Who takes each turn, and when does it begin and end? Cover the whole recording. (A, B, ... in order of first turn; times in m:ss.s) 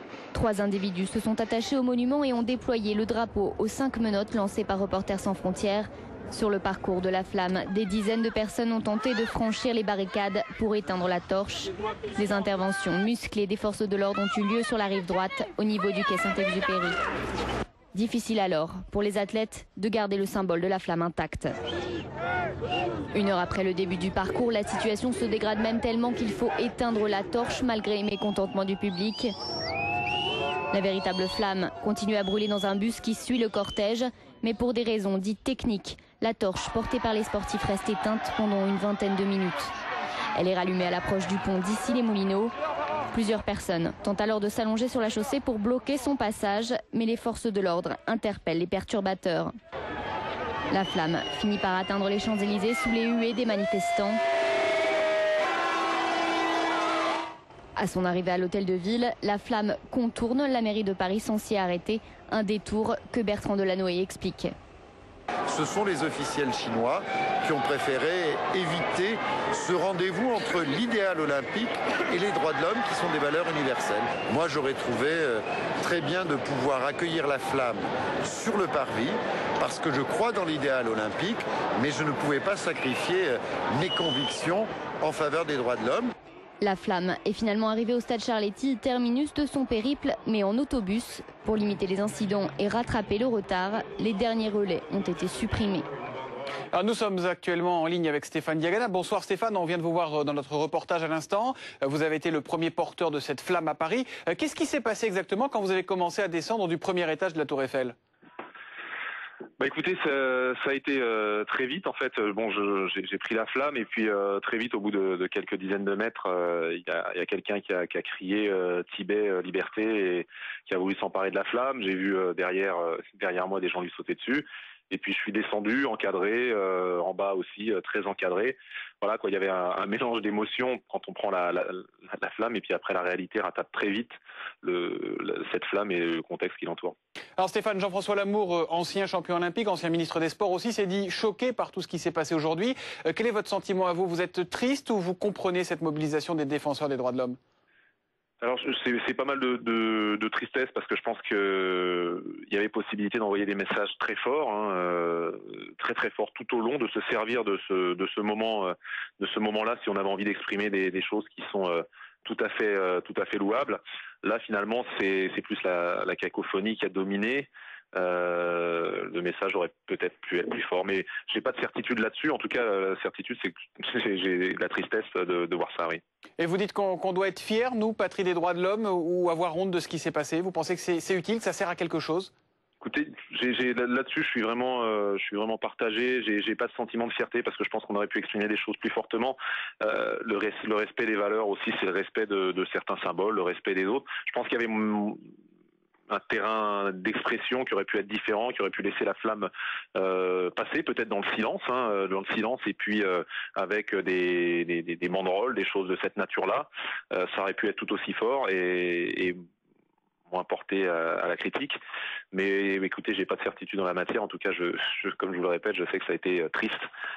0:00.3-0:17.0 A
0:17.9-0:21.5 A
0:23.1-0:29.3 A
0:30.7-0:39.7 A
0:40.3-0:42.5 A
0:43.1-0:49.5 A
0:50.7-0:54.2 A
0:57.8-1:04.5 A
1:05.5-1:26.1 B
1:26.6-1:35.9 A
1:36.7-1:47.9 C
1:49.6-2:16.9 D
2:17.4-2:27.3 C
2:28.4-2:56.0 D
2:56.4-3:02.3 C
3:02.8-3:15.2 D
3:16.1-3:29.4 D
3:30.3-3:31.8 D
3:32.3-3:36.8 D